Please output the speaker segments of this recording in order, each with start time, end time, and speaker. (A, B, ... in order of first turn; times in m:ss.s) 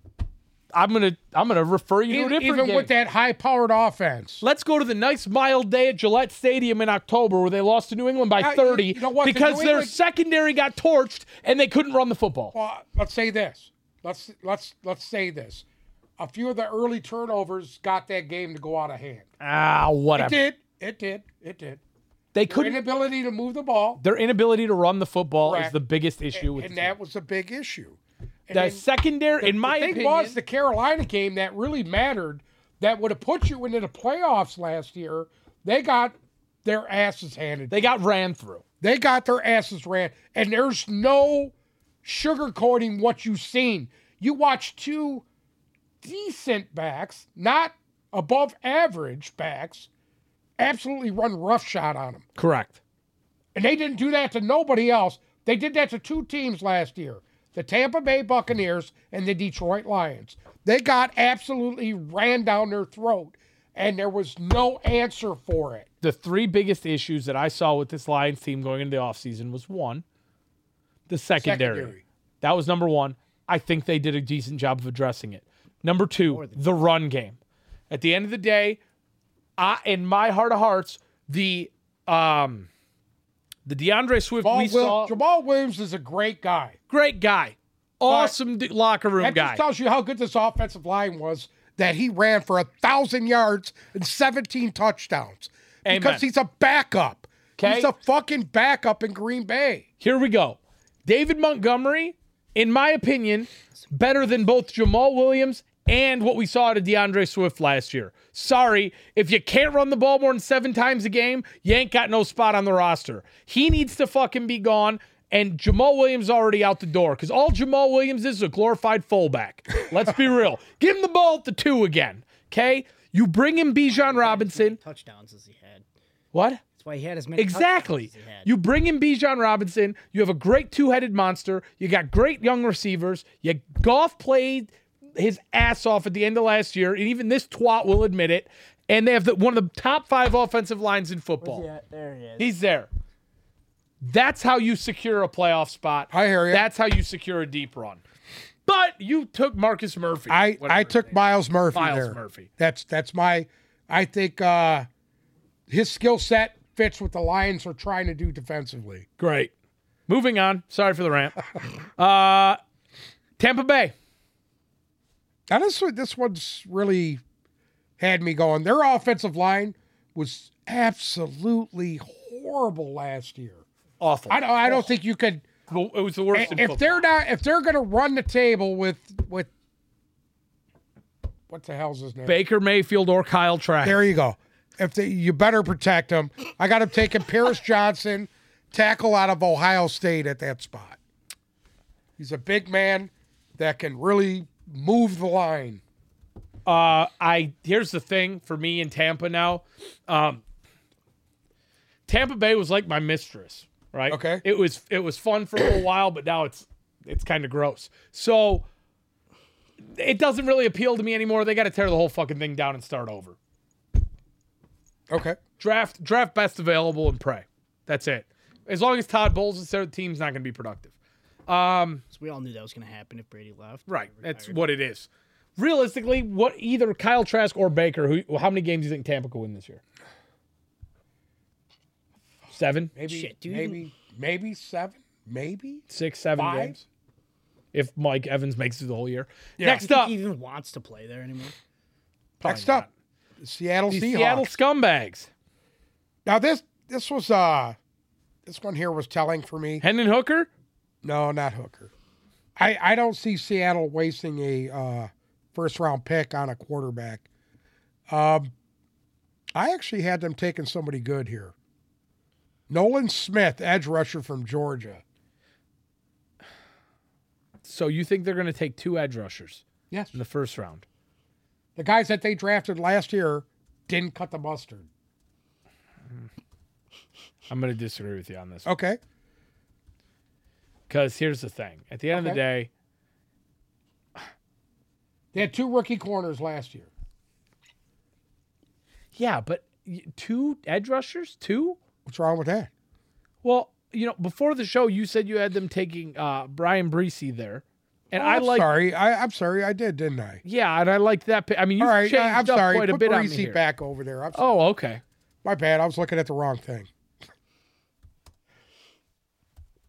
0:00.7-0:02.9 A
0:02.1-0:04.4 B
0:04.4-0:12.5 A
0:08.4-0:09.9 B
0:12.5-0:15.6 B
0:16.2-0:19.3 B
0:19.4-0:20.4 A
0:20.2-0:21.8 B
0:22.3-0:22.8 A
0:22.5-0:24.0 B
0:24.0-0:26.9 A
0:25.4-0:25.8 B
0:26.3-0:28.8 B
0:28.5-0:30.4 A
0:29.4-0:37.9 B
0:37.7-0:38.6 A
0:38.8-0:41.5 B
0:42.0-0:45.2 B
0:46.0-0:49.9 B
0:50.6-0:52.2 B
0:52.4-0:52.8 A
0:53.5-1:05.9 B
1:06.0-1:10.0 A
1:11.1-1:17.4 A
1:11.4-1:12.0 B
1:16.3-1:16.6 C
1:17.9-1:18.8 A
1:19.6-1:22.7 A
1:23.6-1:25.1 A
1:24.4-1:26.8 B
1:26.9-1:29.6 A
1:28.1-1:28.3 B
1:29.2-1:39.8 B
1:35.8-1:36.2 A
1:37.6-1:37.9 A
1:40.0-2:04.8 A
2:03.8-2:05.8 C
2:06.3-2:06.6 A
2:06.8-2:08.5 C
2:07.4-2:21.6 A
2:21.4-2:22.5 C
2:22.4-2:22.9 A
2:24.0-2:28.0 A
2:26.1-2:26.7 B
2:28.6-2:31.2 A
2:30.3-2:34.9 B
2:31.7-2:32.5 A
2:35.7-2:39.0 B
2:39.2-2:39.5 A
2:40.1-2:42.6 A
2:43.4-2:43.9 A
2:45.5-2:47.2 B
2:48.0-2:53.6 B
2:54.0-2:54.9 A
2:54.3-2:55.4 B
2:55.7-2:57.0 A
2:56.3-2:59.5 B
3:01.5-3:02.4 B
3:02.2-3:04.1 A
3:03.8-3:11.0 B
3:12.2-3:15.8 B
3:16.6-3:20.4 A
3:22.1-3:28.6 A
3:24.1-3:24.4 B
3:29.9-3:33.4 A
3:35.1-3:35.4 B
3:35.6-3:40.9 A
3:41.5-3:42.0 A
3:42.1-3:44.6 C
3:43.9-3:49.8 A
3:52.5-3:52.9 A
3:52.9-3:56.8 B
3:53.1-3:53.8 C
3:55.9-3:56.8 A
3:57.7-4:00.1 A
3:59.6-3:59.8 B
3:59.7-4:01.5 C
4:02.4-4:02.9 A
4:02.4-4:02.9 B
4:03.4-4:04.5 B
4:03.9-4:05.3 A
4:06.2-4:07.8 B
4:08.4-4:09.8 B
4:09.8-4:10.5 A
4:11.0-4:11.9 B
4:12.6-4:17.2 B
4:18.1-4:18.5 B
4:19.5-4:21.5 B
4:22.7-4:25.0 B
4:27.6-4:30.8 A
4:29.9-4:30.2 B
4:31.8-4:34.9 B
4:37.5-4:38.7 A
4:38.6-4:39.0 B
4:40.9-4:42.7 A
4:42.1-4:42.4 B
4:45.3-4:46.9 B
4:49.1-4:51.8 A
4:52.0-4:52.7 B
4:53.4-4:58.7 A
4:58.1-5:00.4 B
5:00.4-5:03.6 A
5:01.8-5:04.5 B
5:04.3-5:05.0 A
5:05.4-5:06.9 B